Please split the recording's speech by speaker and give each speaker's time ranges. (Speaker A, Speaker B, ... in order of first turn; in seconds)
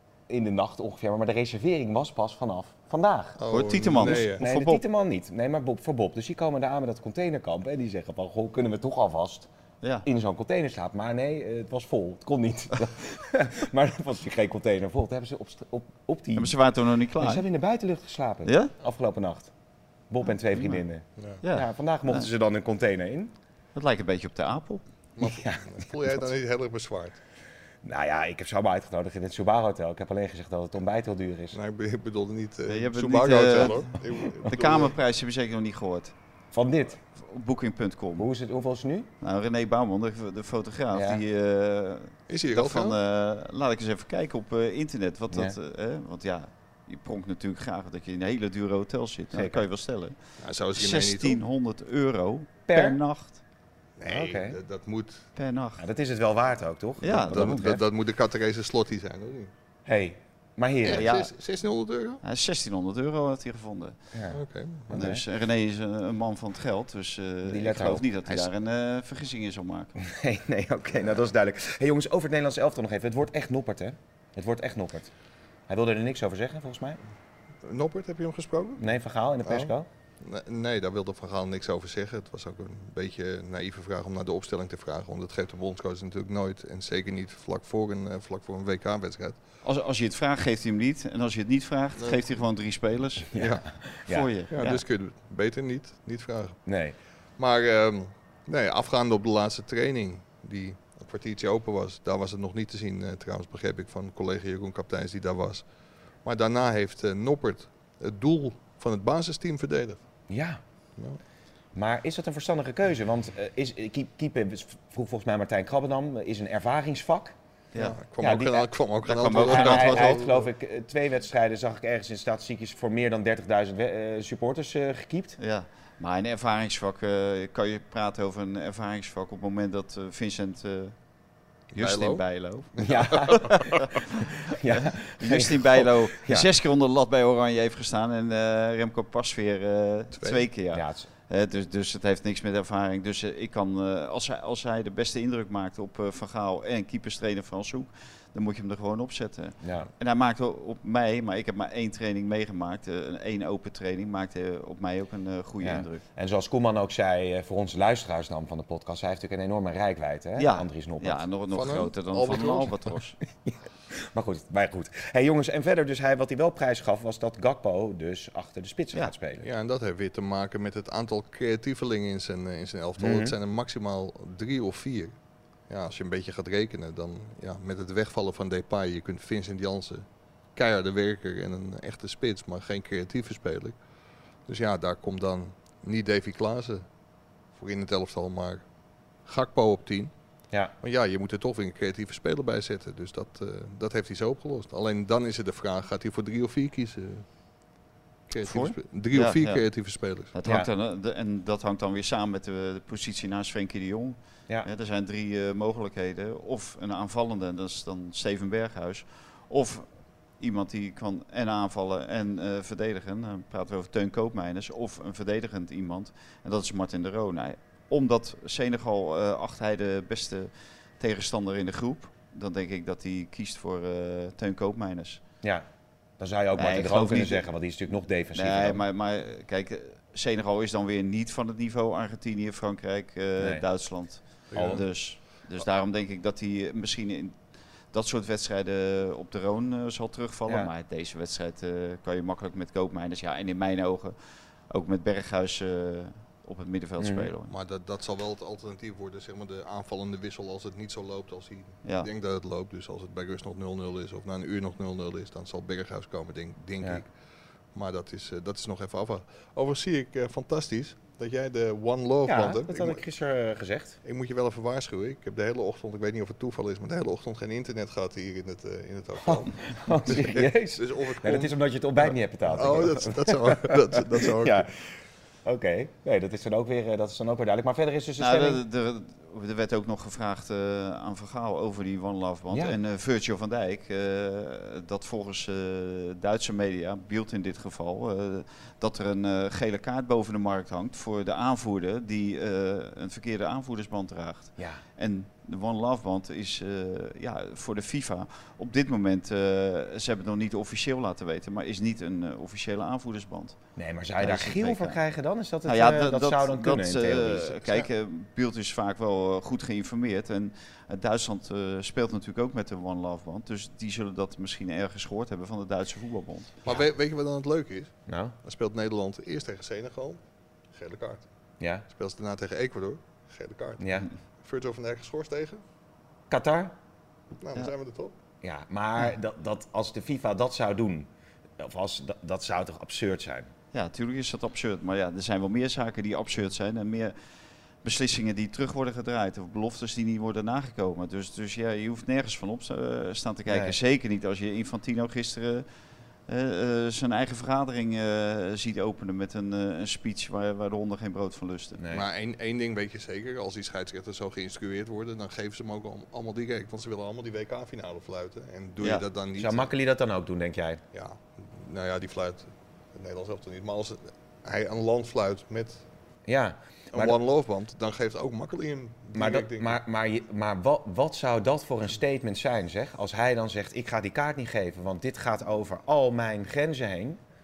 Speaker A: 0.3-3.4, 4.0-9.5, 10.0-16.6, 17.2-19.5, 20.1-23.3, 25.2-26.2, 27.8-31.6, 36.5-37.0, 38.1-39.1, 40.9-41.2, 45.3-45.6, 49.3-49.6, 52.7-53.0, 54.0-54.6, 55.8-57.8, 59.9-61.1, 64.1-65.2, 67.4-68.5, 70.0-75.1, 75.7-77.0, 78.8-79.9, 93.3-94.3, 96.7-97.0, 110.3-110.6, 111.7-117.3, 118.2-118.7, 119.2-125.4, 132.8-133.8, 134.5-136.5, 140.7-141.1, 149.6-149.9, 155.6-161.8, 163.4-169.4, 173.0-173.3, 226.2-228.8, 233.4-233.6, 234.5-234.8, 247.0-247.3, 262.2-264.0, 269.2-274.7, 275.4-278.6, 282.5-282.8, 294.6-294.8, 303.8-307.6, 318.1-318.3, 323.8-324.1, 326.3-326.7, 328.4-333.5, 343.5-343.7, 351.8-352.1, 359.4-360.8, 366.3-367.1, 369.1-377.2
Speaker B: 3.4-4.4, 25.1-27.2, 31.5-35.0, 42.3-43.0, 50.4-51.4, 54.0-55.3, 57.3-59.5, 60.8-62.2, 64.3-65.1, 77.6-78.9, 79.4-89.4, 92.0-92.2, 93.3-93.7, 94.5-96.6, 97.4-105.6, 106.2-110.0, 117.8-120.4, 131.7-132.2, 132.8-133.5, 140.1-140.5, 161.5-162.8, 169.4-175.1, 175.7-183.8, 184.5-186.8, 187.5-188.6, 189.2-190.1, 190.8-197.2, 198.3-200.3, 234.5-234.9, 247.5-257.1, 257.7-263.0, 264.0-274.7, 316.6-320.2, 320.7-321.2, 321.9-323.9, 324.4-325.6, 327.4-328.1, 351.9-359.7, 360.9-365.8, 366.9-369.8
Speaker C: 3.5-4.8, 9.8-10.1, 16.3-17.4, 18.4-18.7, 21.4-22.3, 23.7-24.8, 32.7-36.1, 37.1-38.3, 39.2-50.2, 50.7-53.4, 55.4-55.8, 57.0-57.5, 60.9-61.3, 62.2-64.0, 64.9-69.9, 89.6-93.3, 94.1-94.8, 119.1-120.2, 125.4-131.0, 131.7-134.0, 134.7-156.0, 160.3-163.2, 198.4-199.6, 200.3-225.2, 226.5-227.4, 228.3-244.2, 244.7-247.5, 251.8-252.1, 278.2-303.6, 304.2-305.0, 305.6-316.5, 333.7-337.1, 337.8-345.6, 346.3-351.8